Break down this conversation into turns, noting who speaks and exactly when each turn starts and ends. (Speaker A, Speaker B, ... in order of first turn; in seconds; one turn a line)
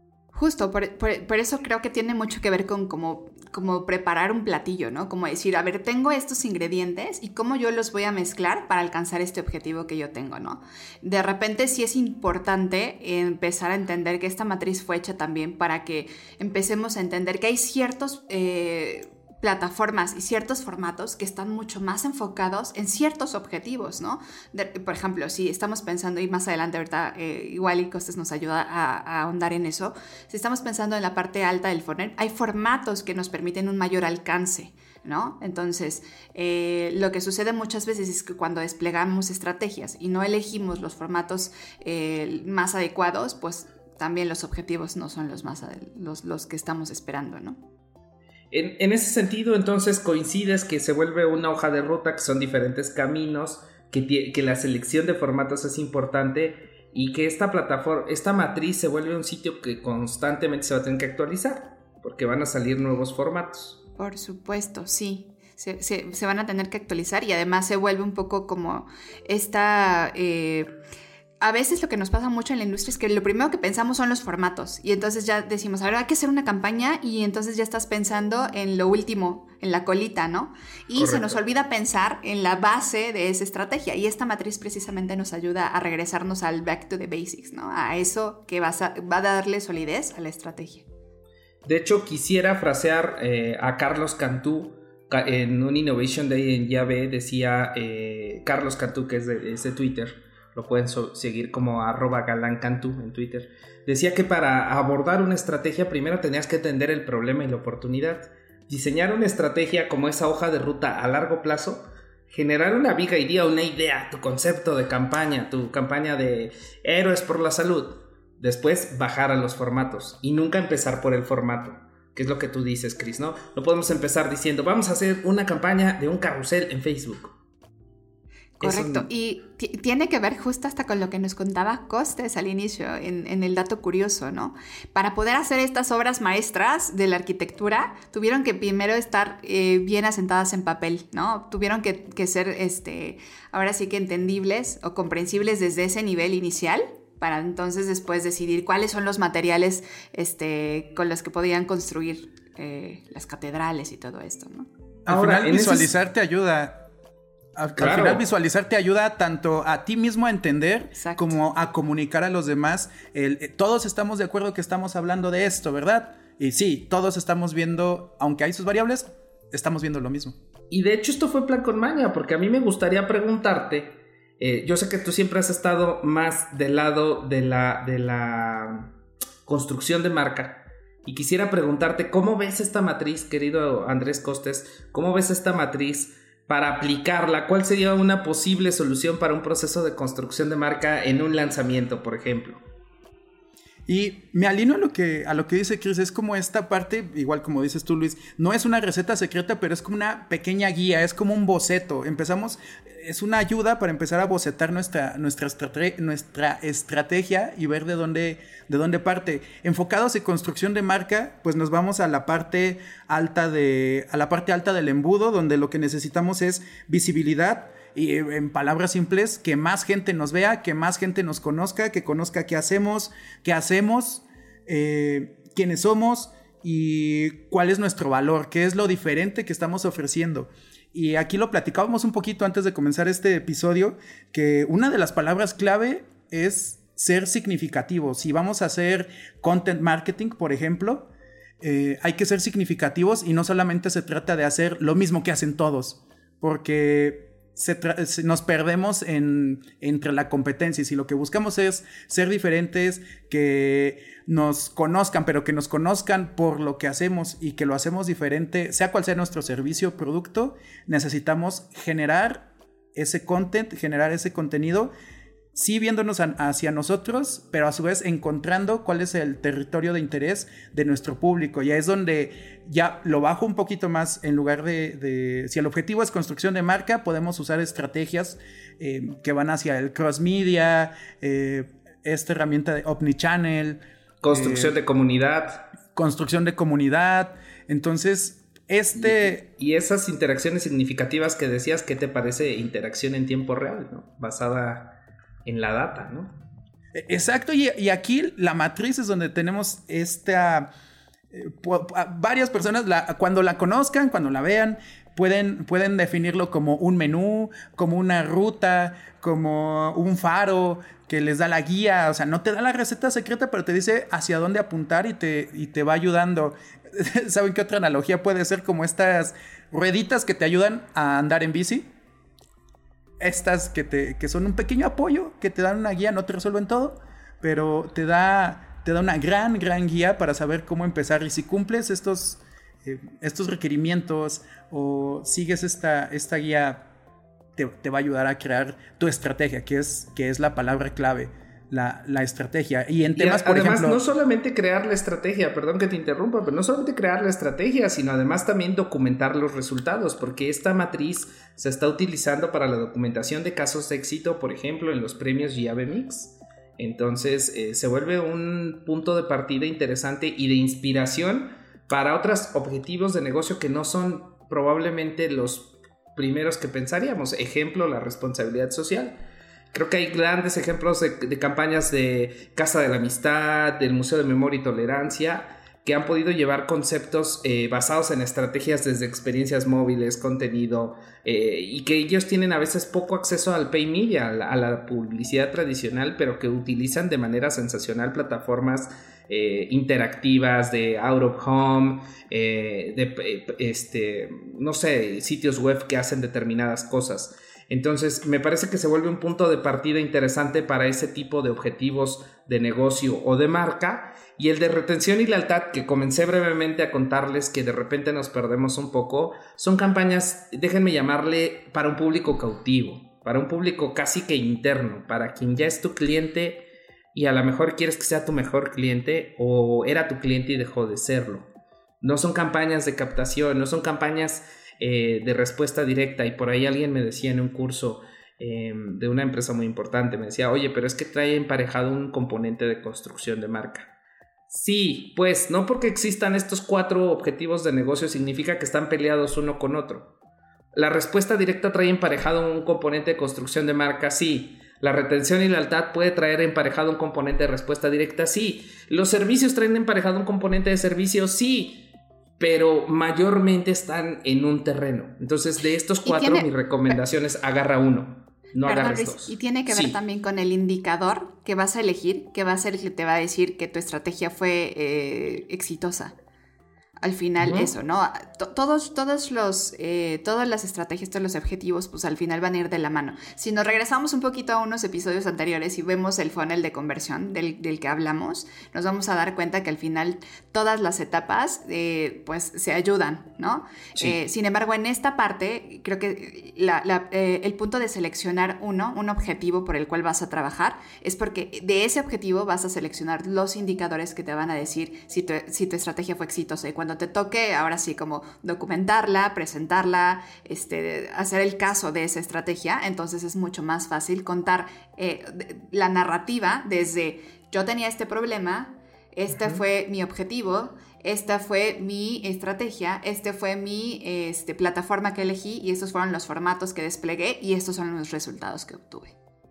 Speaker A: 0.3-47.6
Speaker B: 48.5-63.8
Speaker A: 64.0-70.7
Speaker A: 71.4-90.9
Speaker B: 81.0-81.4
Speaker B: 91.7-127.3
Speaker A: 128.6-154.7
Speaker B: 128.6-129.1
Speaker C: 155.1-156.8
Speaker B: 155.1-155.9
Speaker C: 157.6-170.4
Speaker B: 157.8-158.2
Speaker A: 160.9-161.3
Speaker B: 170.7-178.9
Speaker B: 179.5-192.6
Speaker C: 193.9-241.1
Speaker C: 241.6-264.9
Speaker C: 265.5-283.8
Speaker B: 284.2-285.7
Speaker C: 284.3-284.8
Speaker C: 285.9-289.4
Speaker B: 289.0-296.3
Speaker C: 296.9-300.7
Speaker C: 301.3-321.9
Speaker C: 323.2-336.8
Speaker C: 337.6-344.0
Speaker B: 343.2-369.2
Speaker B: 369.7-421.5
Speaker B: 422.0-433.9
Speaker B: 434.5-440.1
Speaker B: 440.8-460.0
Speaker A: 456.1-456.5
Speaker A: 458.6-466.1
Speaker A: 467.0-519.1
Speaker B: 467.4-467.7
Speaker B: 509.3-509.6